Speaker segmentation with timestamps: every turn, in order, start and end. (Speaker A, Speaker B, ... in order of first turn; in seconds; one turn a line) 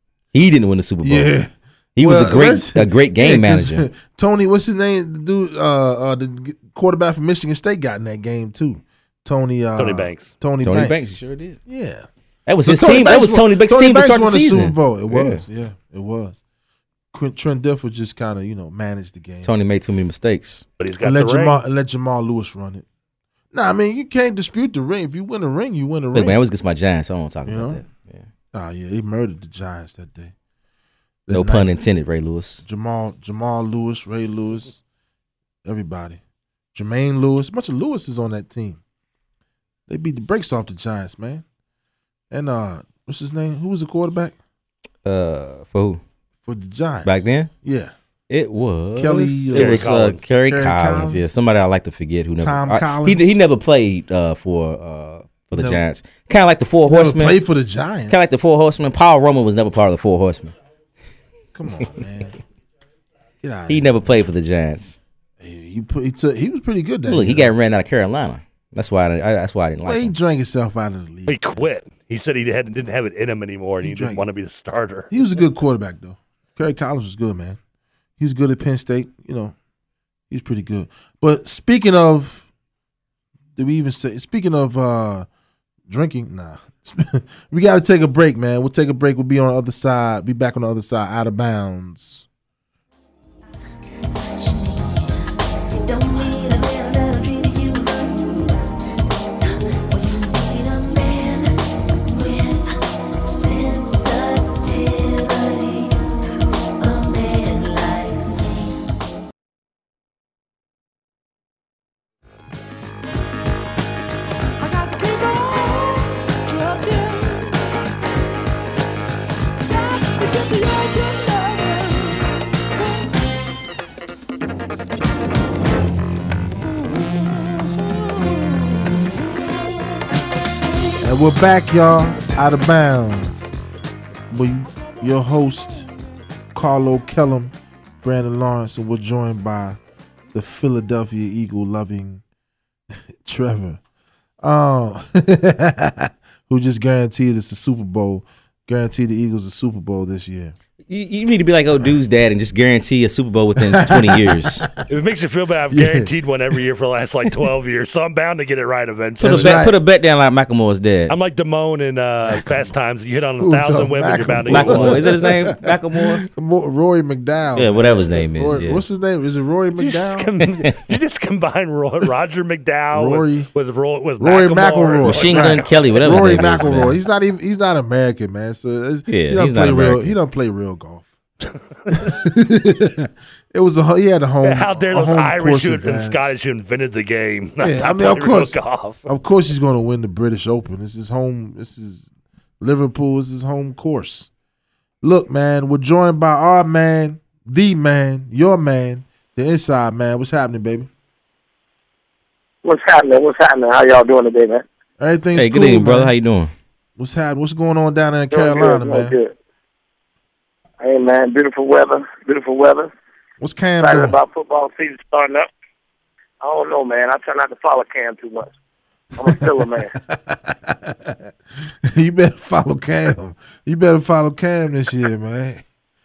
Speaker A: 0.3-1.3
Speaker B: 1.0-11.0
Speaker A: 2.0-3.9
Speaker C: 9.8-10.3
Speaker A: 10.6-11.6
Speaker B: 11.7-12.1
Speaker A: 12.5-15.4
Speaker B: 12.7-16.4
Speaker B: 17.1-19.5
Speaker A: 19.4-20.6
Speaker C: 20.8-21.6
Speaker B: 21.0-22.9
Speaker B: 23.5-26.4
Speaker A: 26.1-28.3
Speaker B: 27.5-27.8
Speaker B: 28.5-30.3
Speaker B: 31.3-31.8
Speaker A: 31.3-32.6
Speaker B: 32.6-34.8
Speaker B: 35.6-36.2
Speaker B: 36.8-38.8
Speaker B: 39.9-41.4
Speaker B: 42.3-44.4
Speaker A: 45.0-46.0
Speaker B: 46.5-47.9
Speaker A: 47.0-47.5
Speaker A: 48.3-57.4
Speaker B: 49.0-51.2
Speaker C: 49.5-50.2
Speaker B: 52.4-53.4
Speaker B: 55.5-55.8
Speaker B: 56.9-58.3
Speaker A: 58.1-60.5
Speaker B: 61.5-62.4
Speaker B: 63.4-64.2
Speaker A: 63.7-65.0
Speaker B: 65.4-67.5
Speaker A: 67.1-70.1
Speaker B: 69.8-71.4
Speaker C: 71.3-75.1
Speaker B: 73.8-74.2
Speaker B: 75.1-77.6
Speaker B: 78.2-79.5
Speaker B: 80.3-82.5
Speaker B: 83.6-85.3
Speaker B: 85.9-92.3
Speaker D: 94.0-98.8
Speaker D: 99.4-108.8
Speaker E: 114.6-117.6
Speaker E: 119.6-123.2
Speaker E: 126.6-131.1
Speaker B: 131.0-133.6
Speaker B: 134.3-135.8
Speaker E: 134.9-135.9
Speaker B: 136.6-139.8
Speaker B: 140.3-142.2
Speaker B: 143.2-143.8
Speaker B: 144.4-150.5
Speaker A: 150.9-154.7
Speaker B: 153.7-154.7
Speaker C: 154.9-159.6
Speaker B: 155.7-156.1
Speaker B: 159.2-159.8
Speaker A: 159.2-161.2
Speaker C: 161.1-165.2
Speaker B: 163.4-170.3
Speaker A: 164.5-166.2
Speaker A: 167.6-168.8
Speaker C: 169.8-176.4
Speaker A: 170.4-170.8
Speaker B: 172.9-173.5
Speaker B: 174.2-181.1
Speaker A: 175.1-177.0
Speaker A: 179.1-180.2
Speaker B: 181.9-186.2
Speaker C: 184.4-189.0
Speaker B: 187.6-192.1
Speaker B: 192.6-194.3
Speaker B: 195.0-200.9
Speaker F: 202.6-204.7
Speaker B: 205.0-206.1
Speaker A: 205.3-206.5
Speaker B: 207.0-209.2
Speaker F: 208.3-209.3
Speaker F: 210.8-212.9
Speaker B: 213.4-214.2
Speaker F: 213.8-215.5
Speaker F: 216.4-218.5
Speaker F: 219.2-219.9
Speaker B: 219.2-221.3
Speaker B: 221.8-225.6